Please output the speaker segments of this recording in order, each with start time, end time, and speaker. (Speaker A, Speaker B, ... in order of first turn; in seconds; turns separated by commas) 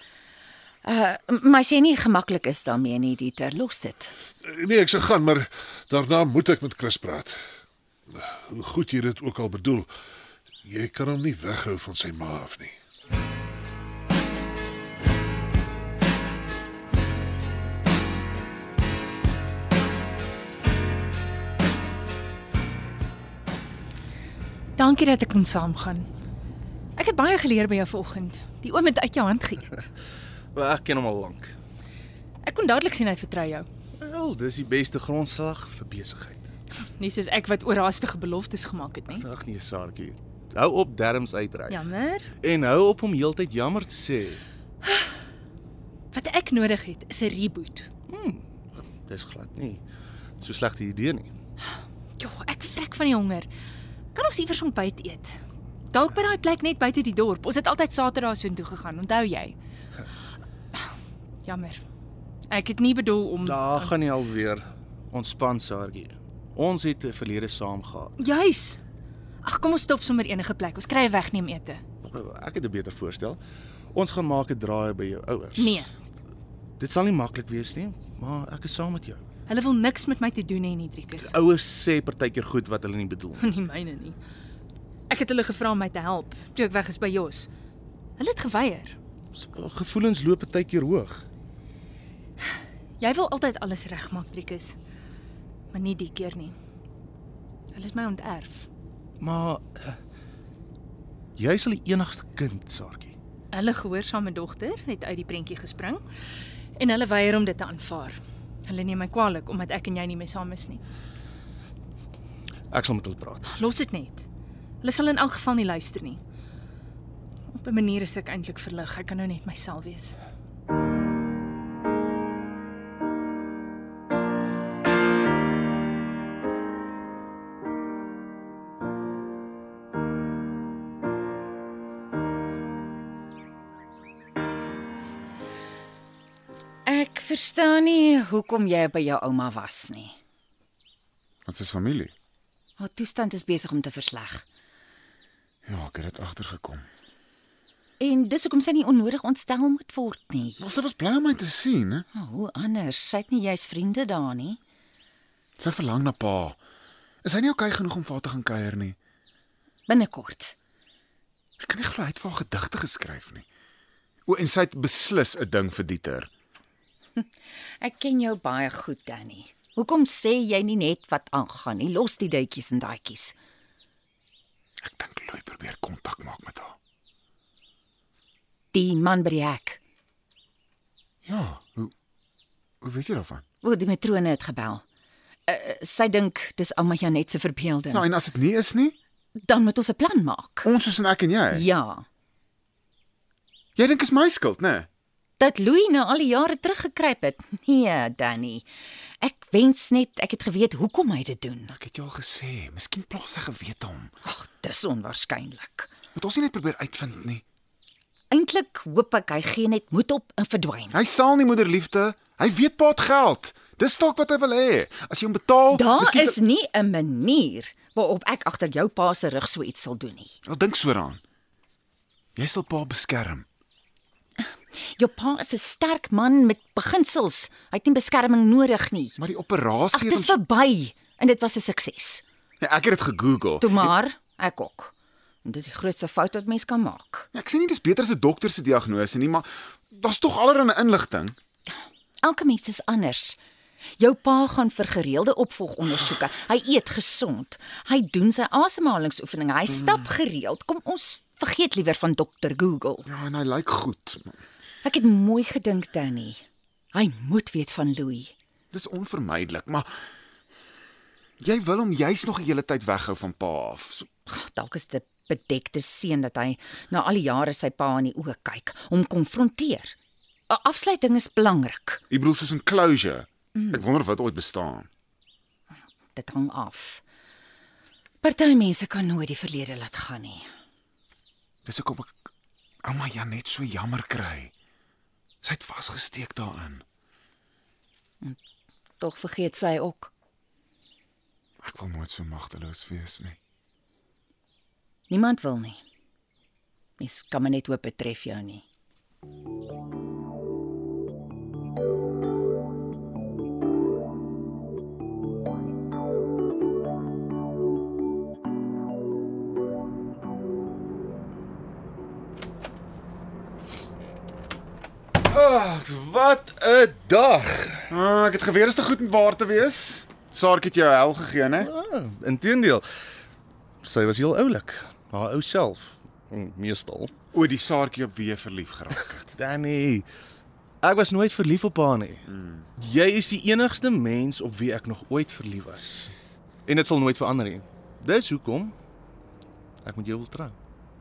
Speaker A: 0.8-4.1, Speaker B: 4.4-7.4, Speaker B: 8.1-9.9, Speaker B: 10.6-12.7, Speaker C: 24.8-26.1, Speaker C: 26.9-29.8, Speaker D: 30.5-31.5, Speaker C: 32.4-33.7, Speaker D: 34.0-36.5, Speaker C: 37.0-39.3, Speaker D: 39.1-41.8, Speaker C: 41.7-42.3, Speaker D: 42.4-44.4, Speaker C: 46.1-47.9, Speaker D: 48.1-48.4, Speaker D: 49.1-49.8, Speaker D: 50.4-51.3, Speaker C: 52.2-53.5, Speaker C: 54.1-55.4, Speaker C: 55.9-59.5, Speaker C: 61.4-61.8, Speaker C: 62.5-64.0, Speaker D: 63.4-68.1, Speaker C: 68.2-68.8, Speaker C: 69.4-71.8, Speaker D: 72.0-73.4, Speaker D: 73.9-75.9, Speaker C: 75.6-75.9, Speaker D: 76.8-79.2, Speaker C: 79.5-81.3, Speaker D: 81.2-83.5, Speaker C: 83.4-84.2, Speaker C: 85.1-87.5, Speaker C: 88.2-89.0, Speaker D: 89.3-91.2, Speaker C: 93.0-94.8, Speaker C: 95.7-96.5, Speaker C: 97.7-98.7, Speaker D: 99.2-100.0, Speaker D: 101.4-103.2, Speaker C: 103.5-106.0, Speaker C: 106.8-110.8, Speaker D: 112.7-113.5, Speaker C: 113.5-114.2, Speaker C: 114.8-116.2, Speaker C: 117.5-120.2, Speaker A: 136.9-140.1, Speaker E: 141.4-142.1, Speaker A: 142.8-144.4, Speaker E: 145.6-146.8, Speaker A: 148.0-150.6, Speaker E: 150.6-152.1, Speaker A: 152.1-154.6, Speaker E: 155.6-156.6, Speaker E: 157.2-158.9, Speaker A: 159.9-160.5, Speaker E: 161.6-163.4, Speaker E: 164.3-166.3, Speaker A: 167.8-173.3, Speaker E: 174.8-176.8, Speaker A: 178.7-179.8, Speaker E: 181.2-181.9, Speaker E: 182.8-183.4, Speaker A: 183.6-184.8, Speaker A: 185.5-188.1, Speaker E: 187.9-188.9, Speaker A: 189.3-190.7, Speaker E: 190.6-191.7, Speaker A: 191.5-192.1, Speaker E: 193.8-194.9, Speaker A: 195.4-198.7, Speaker A: 199.2-201.7, Speaker E: 201.7-204.1, Speaker A: 204.2-205.9, Speaker E: 206.1-207.4, Speaker A: 208.3-211.0, Speaker E: 210.9-216.4, Speaker A: 215.7-220.4, Speaker E: 220.4-221.2, Speaker E: 222.3-223.4, Speaker A: 224.4-229.2, Speaker E: 229.2-230.4, Speaker A: 229.9-232.2, Speaker E: 232.6-233.9, Speaker A: 233.6-234.9, Speaker A: 235.4-237.3, Speaker E: 237.3-241.3, Speaker A: 242.2-243.4, Speaker A: 244.0-253.1, Speaker E: 253.0-254.4, Speaker A: 254.8-256.4, Speaker A: 256.9-258.3, Speaker E: 258.7-259.9, Speaker E: 261.4-264.1, Speaker A: 264.3-269.9, Speaker A: 270.5-272.0, Speaker E: 272.1-274.9, Speaker A: 276.1-277.0, Speaker A: 278.2-280.5, Speaker E: 281.6-282.3, Speaker E: 282.8-284.5, Speaker E: 285.4-286.8, Speaker A: 289.0-290.1, Speaker E: 291.6-293.4, Speaker A: 295.1-295.8, Speaker A: 297.0-298.6, Speaker D: 315.2-317.9, Speaker E: 317.9-321.7, Speaker D: 321.6-322.8, Speaker D: 323.8-327.1, Speaker E: 327.3-329.3, Speaker D: 329.4-330.1, Speaker D: 330.8-332.2, Speaker E: 332.3-332.7, Speaker D: 332.8-336.1, Speaker D: 336.6-338.7, Speaker D: 339.8-340.5